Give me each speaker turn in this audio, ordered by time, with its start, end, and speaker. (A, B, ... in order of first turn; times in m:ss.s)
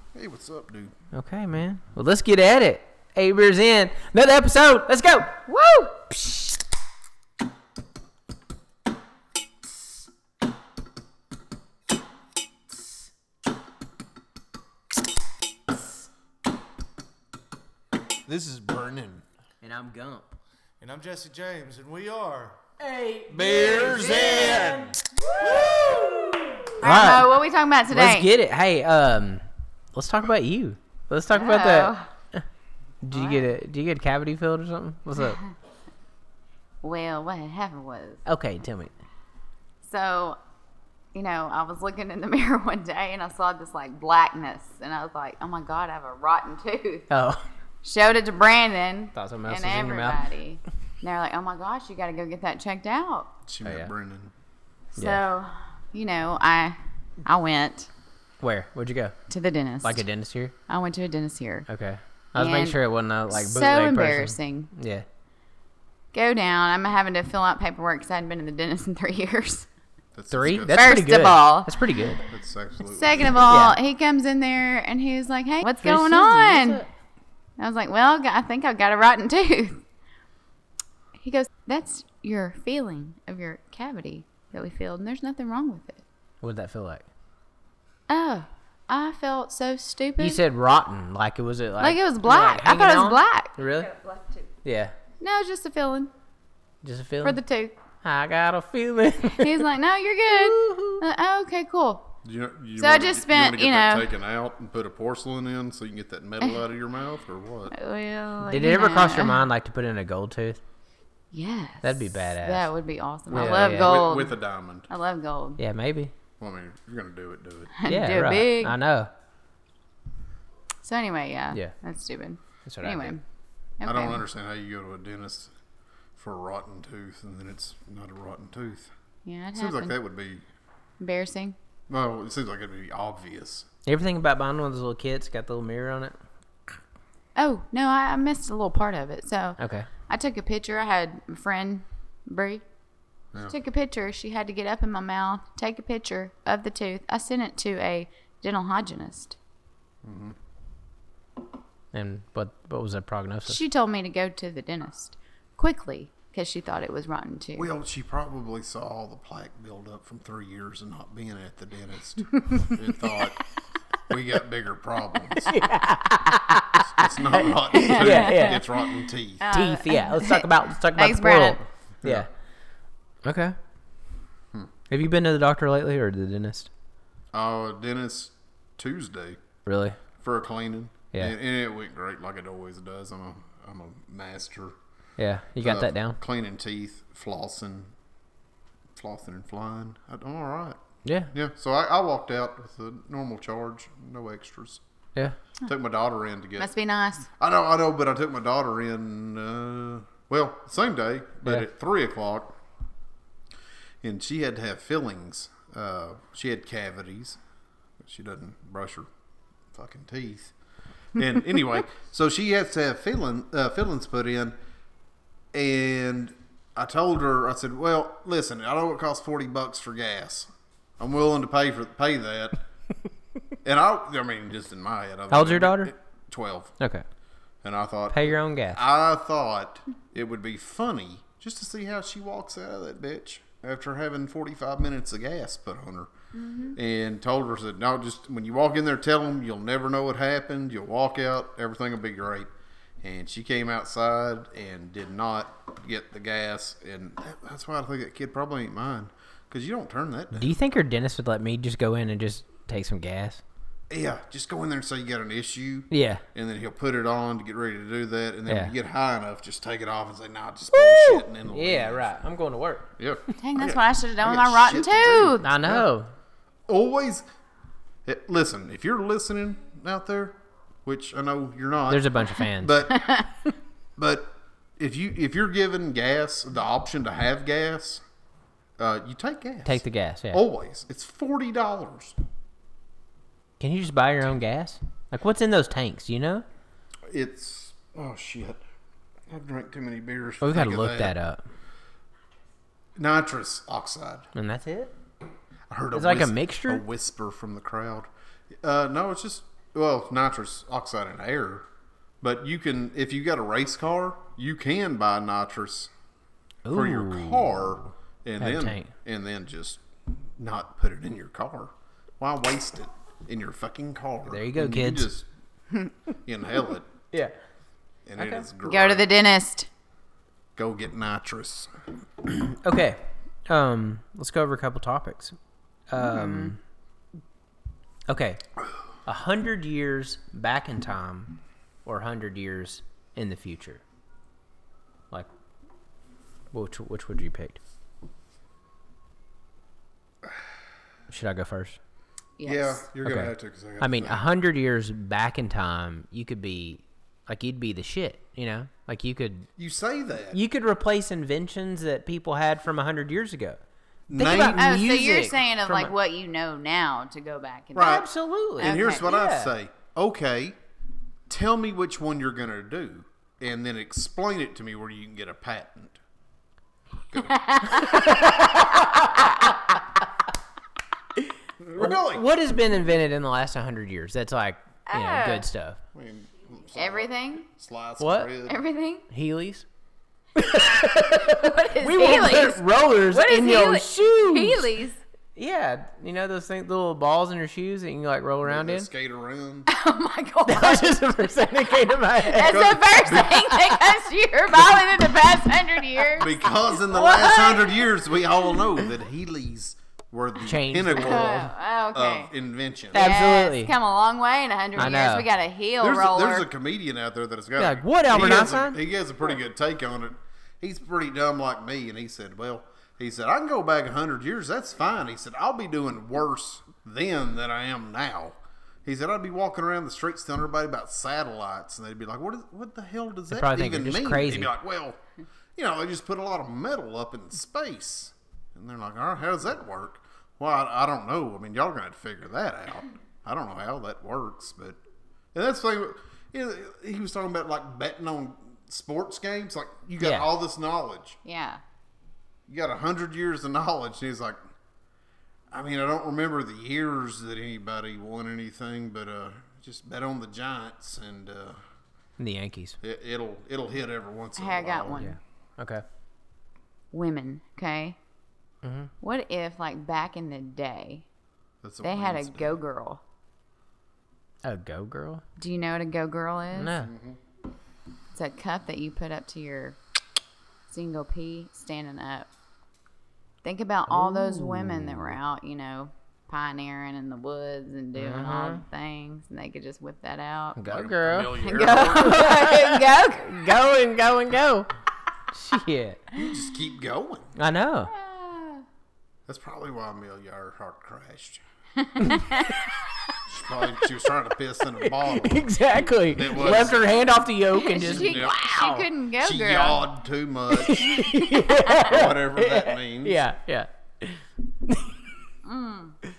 0:00.1-0:00.9 A
0:01.1-0:05.4 B
0:05.5-0:06.2 C
0:18.3-0:19.2 A
0:19.6-0:20.4 B
0:20.8-0:22.6 D
0:22.8-0:27.4 B
0:23.3-0:24.9 A
0:23.3-0:24.9 D
0:26.8-0:28.3 C
0:27.9-0:32.4 B
0:31.3-0:32.1 C
0:33.0-0:35.4 B
0:33.1-0:33.4 C
0:36.8-0:38.2 C
0:38.2-0:38.9 B
0:39.8-0:40.4 C
0:41.1-0:47.1 C
0:47.1-0:47.5 B
0:47.8-0:53.3 C
0:49.1-0:50.2 B
0:53.5-0:54.3 A
0:53.6-0:53.9 B
0:55.0-0:57.9 C
0:58.4-0:59.1 B
0:59.3-1:00.0 C
0:59.8-1:00.5 B
1:00.7-1:01.7 C
1:01.7-1:05.0 B
1:02.4-1:02.8 C
1:03.3-1:04.7 C
1:06.1-1:09.7 C
1:10.1-1:10.9 A
1:10.3-1:12.2 B
1:10.7-1:11.8 C
1:12.3-1:13.5 A
1:12.9-1:16.8 C
1:13.5-1:13.8 B
1:15.8-1:16.9 B
1:17.6-1:19.8 C
1:21.2-1:26.0 C
1:26.4-1:27.0 B
1:28.1-1:30.4 C
1:30.2-1:33.9 B
1:31.8-1:34.5 C
1:34.6-1:34.9 B
1:35.2-1:36.1 C
1:36.8-1:37.4 B
1:37.2-1:37.8 C
1:38.0-1:39.6 B
1:39.3-1:42.1 C
1:40.3-1:41.0 B
1:42.2-1:47.7 A
1:42.8-1:44.1 C
1:47.7-1:49.4 C
1:48.4-1:50.6 B
1:51.3-1:54.4 C
1:51.8-1:52.7 B
1:53.3-1:54.0 B
1:53.3-1:54.9 A
1:54.9-1:55.6 C
1:55.6-1:56.1 B
1:56.4-1:57.8 A
1:57.8-1:58.8 C
1:57.8-1:59.1 B
2:00.8-2:03.2 C
2:02.6-2:03.2 B
2:03.8-2:04.2 C
2:03.8-2:05.5 A
2:06.2-2:08.9 A
2:09.2-2:10.0 C
2:09.5-2:10.4 A
2:11.0-2:11.6 C
2:11.9-2:13.7 A
2:13.8-2:16.2 B
2:17.4-2:22.6 C
2:19.6-2:19.9 B
2:23.5-2:29.4 C
2:30.0-2:30.4 A
2:31.9-2:33.6 B
2:33.5-2:37.7 C
2:37.6-2:43.4 A
2:42.3-2:42.8 C
2:44.1-2:45.6 A
2:45.4-2:46.8 B
2:46.8-2:49.5 A
2:47.4-2:48.6 B
2:47.8-2:48.9 C
2:49.4-2:51.6 C
2:49.5-2:52.3 B
2:52.0-2:52.3 A
2:53.2-2:53.6 B
2:54.9-2:56.7 B
2:57.3-2:59.4 A
2:59.6-3:00.0 B
3:00.2-3:04.8 A
3:05.2-3:06.2 B
3:05.6-3:07.9 A
3:09.0-3:10.8 A
3:11.0-3:11.3 B
3:11.3-3:14.8 A
3:15.6-3:16.7 A
3:16.6-3:17.3 C
3:17.4-3:22.6 A
3:24.0-3:27.4 A
3:28.0-3:29.1 A
3:29.7-3:30.5 A
3:31.1-3:34.5 A
3:35.5-3:42.6 A
3:43.6-3:46.8 A
3:45.3-3:45.9 B
3:47.6-3:56.1 A
3:48.1-3:48.8 B
3:56.3-3:56.8 C
3:56.7-4:10.6 A
4:10.3-4:13.4 B
4:13.9-4:22.2 A
4:15.9-4:16.2 B
4:18.5-4:18.7 B
4:20.7-4:22.9 B
4:23.0-4:25.9 A
4:23.4-4:25.5 C
4:25.4-4:26.1 B
4:26.7-4:27.2 A
4:28.0-4:33.1 A
4:31.9-4:32.8 B
4:32.9-4:33.4 C
4:34.0-4:38.0 A
4:38.8-4:42.2 A
4:39.6-4:40.4 B
4:43.6-4:46.4 B
4:47.1-4:48.6 A
4:49.3-4:51.1 A
4:50.4-4:51.4 B
4:53.0-4:54.3 A
4:54.3-4:54.9 B
4:55.7-4:58.1 A
4:55.9-4:56.8 B
4:58.6-5:01.6 A
5:02.2-5:05.9 A
5:06.6-5:07.8 B
5:06.7-5:15.3 A
5:08.4-5:08.9 B
5:14.3-5:15.1 B
5:16.2-5:16.9 A
5:18.0-5:19.1 A
5:18.2-5:18.4 B
5:18.6-5:19.7 C
5:20.6-5:21.7 A
5:22.3-5:25.4 B
5:25.9-5:26.6 B
5:25.9-5:26.5 C
5:28.1-5:28.4 B
5:29.0-5:33.8 B
5:36.5-5:37.6 B
5:40.2-5:40.5 A
5:41.1-5:41.8 B
5:42.4-5:42.8 C
5:42.4-5:44.2 A
5:43.0-5:49.5 B
5:49.6-5:50.4 A
5:50.3-5:53.6 B
5:54.1-5:54.7 A
5:54.1-5:55.9 B
5:54.2-5:58.1 C
5:57.7-5:58.1 A
5:57.8-5:59.5 B
5:58.6-6:00.6 A
5:58.6-5:59.1 C
6:01.3-6:06.0 A
6:07.1-6:07.8 A
6:07.2-6:08.5 C
6:07.8-6:09.5 B
6:11.2-6:15.8 B
6:11.6-6:12.2 A
6:14.9-6:15.4 C
6:15.9-6:18.6 A
6:16.7-6:17.5 C
6:18.0-6:18.3 B
6:18.4-6:19.0 C
6:19.1-6:19.6 B
6:20.4-6:24.7 B
6:20.4-6:25.0 C
6:25.4-6:28.9 B
6:28.4-6:29.7 A
6:29.7-6:31.0 C
6:30.4-6:32.7 B
6:32.2-6:37.8 C
6:32.5-6:33.4 A
6:36.2-6:43.0 A
6:37.0-6:37.4 B
6:40.4-6:41.5 B
6:40.9-6:42.3 C
6:42.9-6:43.7 B
6:42.9-6:46.5 C
6:44.8-6:45.3 B
6:45.8-7:05.0 A
6:47.6-6:48.8 B
7:03.3-7:04.5 B
7:05.6-7:14.8 A
7:15.3-7:21.2 A
7:20.0-7:20.3 B
7:21.2-7:21.6 C
7:22.5-7:24.4 A
7:25.5-7:31.6 A
7:32.2-7:32.8 B
7:32.8-7:35.1 A
7:34.4-7:35.1 C
7:35.0-7:35.8 B
7:36.9-7:38.0 C
7:38.6-7:38.9 B
7:39.0-7:41.0 C
7:41.6-7:42.6 A
7:41.8-7:43.0 C
7:44.4-7:45.2 B
7:45.4-7:46.7 C
7:46.5-7:46.9 B
7:46.8-7:47.2 A
7:48.1-7:49.8 C
7:50.7-7:52.3 C
7:53.4-8:00.6 C
7:53.9-7:55.1 B
7:58.0-7:58.6 B
8:00.6-8:04.7 B
8:00.6-8:02.4 A
8:01.4-8:03.3 C
8:05.3-8:06.0 B
8:06.1-8:07.3 A
8:07.4-8:07.9 B
8:07.9-8:08.6 C
8:09.3-8:11.4 A
8:11.8-8:12.7 C
8:13.2-8:15.5 A
8:15.0-8:18.3 B
8:16.1-8:17.0 A
8:17.5-8:19.8 C
8:17.8-8:21.0 A
8:20.5-8:25.0 B
8:21.0-8:21.8 C
8:21.7-8:23.2 A
8:25.4-8:26.0 C